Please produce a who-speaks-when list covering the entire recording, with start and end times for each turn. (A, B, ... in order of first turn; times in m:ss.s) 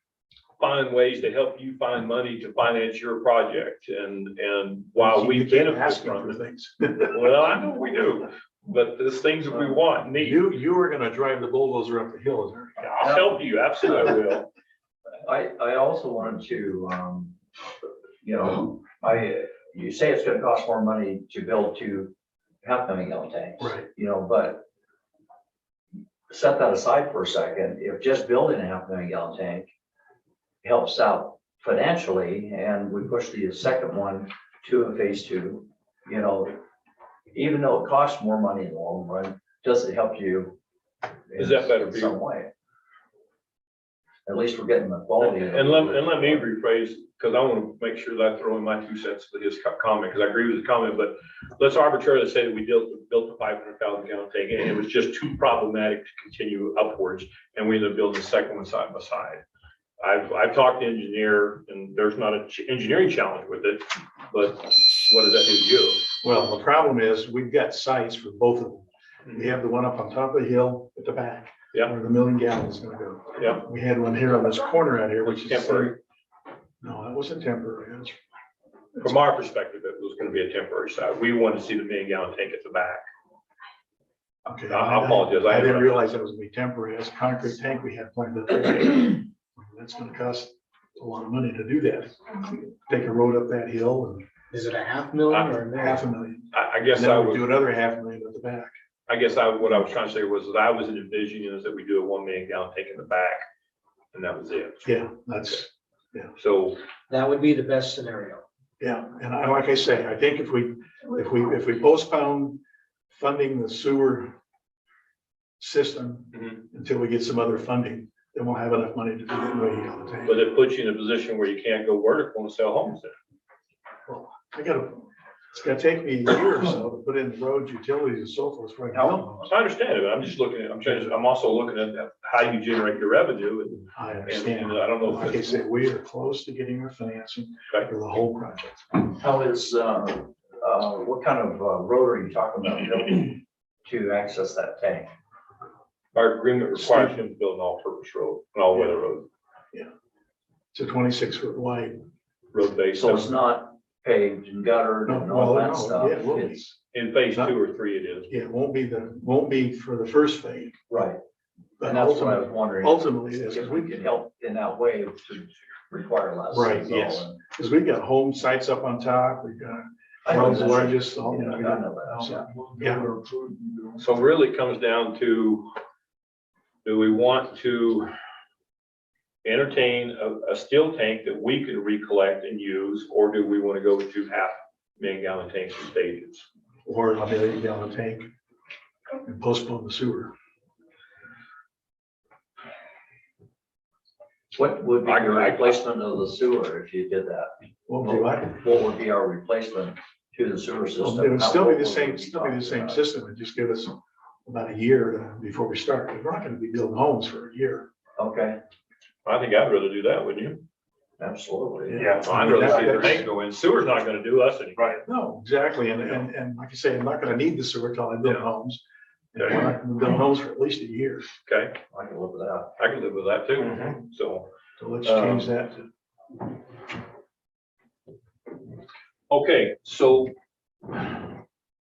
0:00.6-0:06.4 A
0:05.0-0:07.2 B
0:07.0-0:10.4 A
0:10.0-0:12.9 B
0:12.8-0:14.5 A
0:13.0-0:13.3 C
0:15.2-0:17.4 C
0:18.2-0:24.6 C
0:23.6-0:23.9 B
0:26.3-0:29.7 C
0:30.6-0:36.6 C
0:37.3-0:40.6 C
0:41.3-0:42.5 C
0:41.4-0:42.2 A
0:44.2-0:46.4 C
0:45.2-0:59.4 A
1:00.0-1:06.0 A
1:06.2-1:16.0 B
1:13.4-1:13.6 A
1:15.2-1:16.0 A
1:16.8-1:18.2 B
1:19.0-1:23.0 A
1:24.4-1:34.2 B
1:24.7-1:26.0 A
1:34.5-1:36.0 D
1:35.3-1:35.6 A
1:35.8-1:38.7 B
1:36.5-1:37.5 A
1:39.1-1:43.4 A
1:44.1-1:44.9 A
1:44.8-1:46.3 B
1:46.4-1:46.8 A
1:47.1-1:48.4 D
1:48.8-1:52.6 B
1:53.1-1:54.3 B
1:55.6-2:00.4 B
1:56.3-1:56.6 A
2:00.2-2:03.1 A
2:04.1-2:09.3 B
2:09.4-2:15.5 A
2:13.9-2:19.0 B
2:19.0-2:25.1 C
2:26.1-2:29.3 A
2:26.8-2:27.2 B
2:30.7-2:32.0 B
2:32.5-2:33.3 A
2:33.0-2:36.6 C
2:35.0-2:36.8 B
2:36.9-2:38.3 A
2:38.3-2:40.7 B
2:40.9-2:41.2 C
2:41.8-2:44.0 B
2:41.8-2:47.4 C
2:46.5-2:53.2 B
2:50.2-2:52.4 C
2:54.0-2:55.7 A
2:56.8-2:58.1 A
2:59.4-3:06.4 A
3:06.8-3:08.3 B
3:09.2-3:10.3 B
3:14.5-3:23.0 C
3:15.0-3:15.8 A
3:17.9-3:18.6 B
3:21.0-3:27.8 B
3:28.2-3:28.6 C
3:29.2-3:30.6 A
3:31.2-3:32.0 C
3:31.9-3:33.3 B
3:31.9-3:35.0 A
3:34.9-3:38.8 B
3:39.3-3:41.2 B
3:41.4-3:41.8 A
3:41.9-3:42.7 C
3:42.8-3:44.5 A
3:44.8-3:45.8 B
3:49.3-3:50.3 A